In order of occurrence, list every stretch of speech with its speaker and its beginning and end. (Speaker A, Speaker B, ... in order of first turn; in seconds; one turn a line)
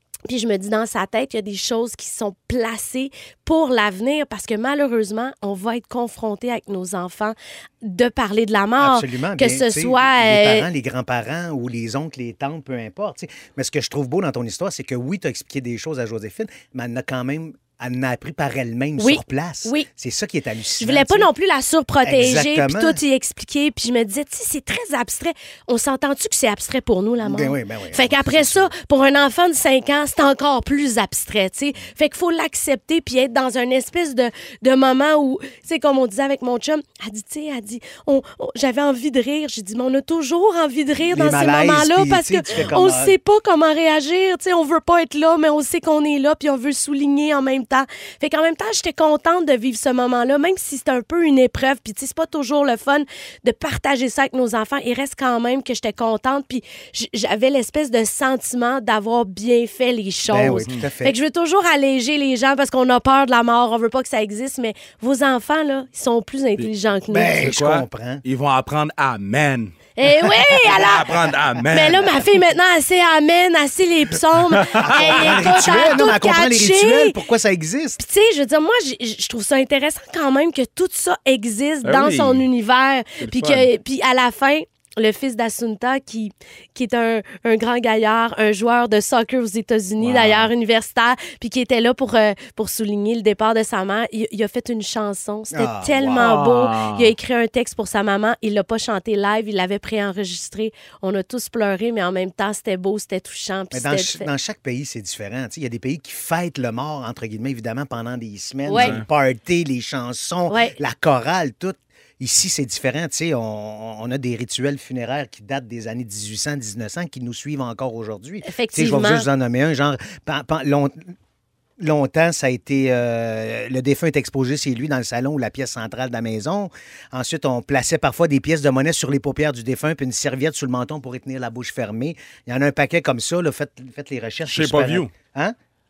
Speaker A: 0.3-10.7
Speaker B: 8.8-21.3
Speaker A: 19.0-19.9
Speaker A: 20.8-67.4
Speaker B: 22.0-23.0
Speaker B: 27.2-28.7
Speaker B: 41.1-43.1
Speaker B: 60.3-61.1
Speaker B: 67.1-68.2
Speaker C: 67.4-69.7
Speaker A: 70.0-71.1
Speaker C: 70.7-72.1
Speaker A: 71.7-77.2
Speaker C: 74.5-75.5
Speaker B: 74.8-78.0
Speaker A: 78.0-104.3
Speaker C: 81.8-82.5
Speaker C: 83.2-83.7
Speaker C: 90.0-90.5
Speaker B: 95.5-96.4
Speaker C: 96.2-97.1
Speaker B: 103.7-121.1
Speaker A: 108.7-109.0
Speaker C: 108.8-109.0
Speaker A: 110.5-110.8
Speaker A: 118.5-119.3
Speaker B: 121.8-135.6
Speaker C: 134.5-135.1